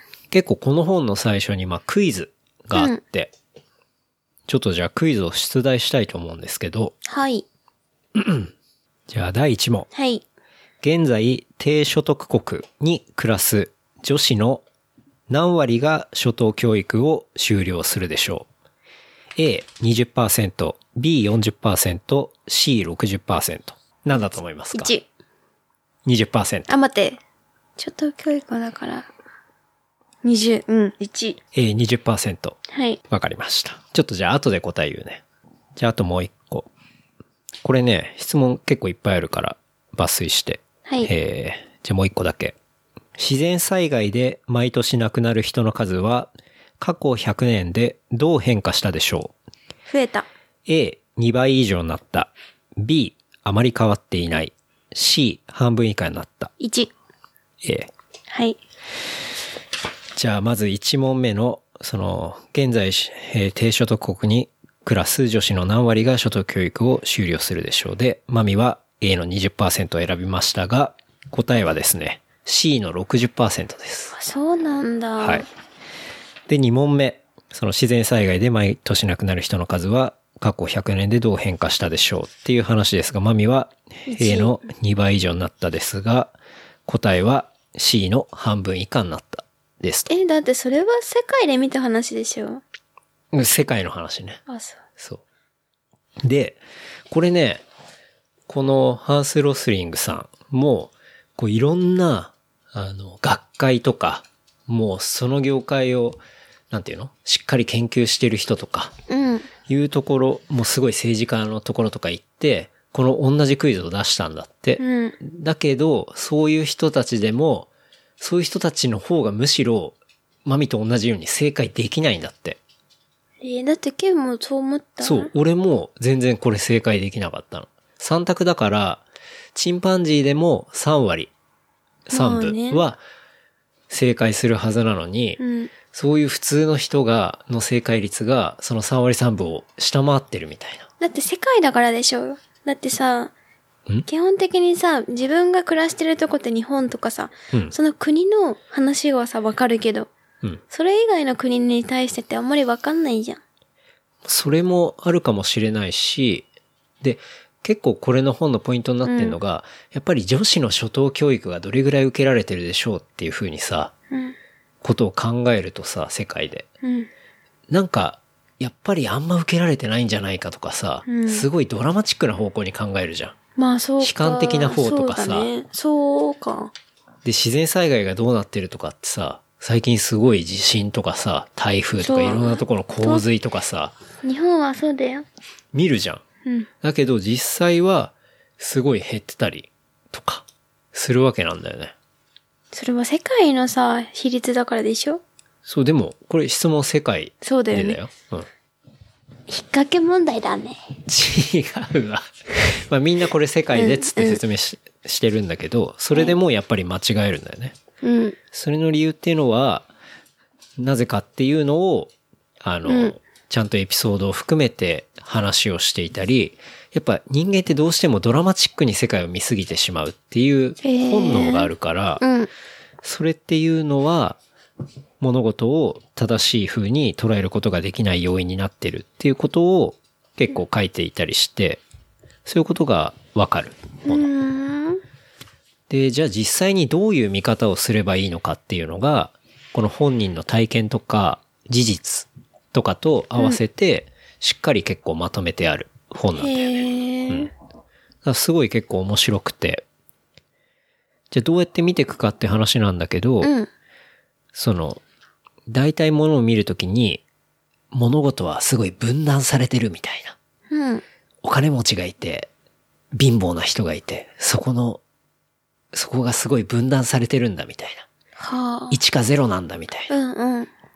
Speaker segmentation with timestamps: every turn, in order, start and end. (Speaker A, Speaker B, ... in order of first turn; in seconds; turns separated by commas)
Speaker A: 0.3-3.3, Speaker B: 2.8-3.0, Speaker A: 4.5-7.0, Speaker B: 7.0-7.5, Speaker A: 8.2-8.5, Speaker A: 9.1-9.9, Speaker B: 9.9-10.2, Speaker A: 10.8-14.6, Speaker A: 15.3-18.5, Speaker A: 19.4-24.9, Speaker B: 24.7-25.1, Speaker A: 26.1-26.7, Speaker B: 26.7-27.2, Speaker B: 27.8-29.1, Speaker B: 30.2-31.4, Speaker A: 31.5-32.6, Speaker B: 32.7-33.0, Speaker A: 33.1-35.2, Speaker A: 35.8-36.7, Speaker A: 37.6-42.6, Speaker A: 43.2-49.3, Speaker B: 49.9-50.3, Speaker A: 50.7-56.5, Speaker B: 56.6-56.9, Speaker A: 57.6-57.9, Speaker B: 58.3-58.6, Speaker A: 60.2-74.2, Speaker B: 74.1-75.5, Speaker A: 75.2-75.5, Speaker A: 76.5-86.3, Speaker B: 84.1-84.6, Speaker A: 86.9-90.1, Speaker B: 90.1-92.6, Speaker A: 93.3-94.4, Speaker B: 94.5-94.8, Speaker A: 96.2-97.6, Speaker A: 98.5-109.0, Speaker B: 109.1-109.5, Speaker A: 109.7-117.7, Speaker B: 114.8-115.2, Speaker A: 118.2-122.6, Speaker B: 123.4-125.3, Speaker A: 125.0-129.0, Speaker A: 129.6-131.3, Speaker A: 132.1-133.0, Speaker B: 132.1-132.8, Speaker A: 133.9-135.4, Speaker B: 135.4-135.7, Speaker A: 135.9-140.9, Speaker B: 141.0-143.3, Speaker B: 144.1-150.1, Speaker B: 150.7-153.4, Speaker A: 154.2-156.5, Speaker A: 157.0-163.9, Speaker B: 159.0-159.4, Speaker A: 164.8-166.7, Speaker B: 166.8-167.1, Speaker A: 167.7-173.3, Speaker B: 171.1-171.5, Speaker B: 173.6-176.7, Speaker A: 174.0-175.5, Speaker A: 177.2-183.9, Speaker B: 182.0-183.2, Speaker B: 184.2-185.3, Speaker A: 185.7-186.2, Speaker A: 186.8-191.9, Speaker B: 192.7-195.2, Speaker A: 195.7-198.5, Speaker B: 197.4-198.0, Speaker B: 199.5-200.9, Speaker A: 201.1-207.8, Speaker B: 203.7-204.4, Speaker B: 208.0-208.4, Speaker A: 208.5-209.9, Speaker A: 210.8-222.2, Speaker B: 212.9-213.2, Speaker B: 220.8-222.5, Speaker A: 223.0-224.4, Speaker A: 225.2-231.8, Speaker A: 232.4-234.3, Speaker B: 234.1-235.0, Speaker A: 235.9-246.7, Speaker B: 246.4-247.5, Speaker A: 248.2-249.8, Speaker A: 251.3-253.5, Speaker B: 253.4-253.7, Speaker A: 254.5-255.0, Speaker A: 255.7-257.2, Speaker A: 257.9-260.4, Speaker B: 260.7-261.0, Speaker A: 261.4-262.5, Speaker A: 263.1-265.0, Speaker A: 265.9-268.1, Speaker B: 268.4-269.0, Speaker A: 268.9-270.1, Speaker B: 270.1-270.7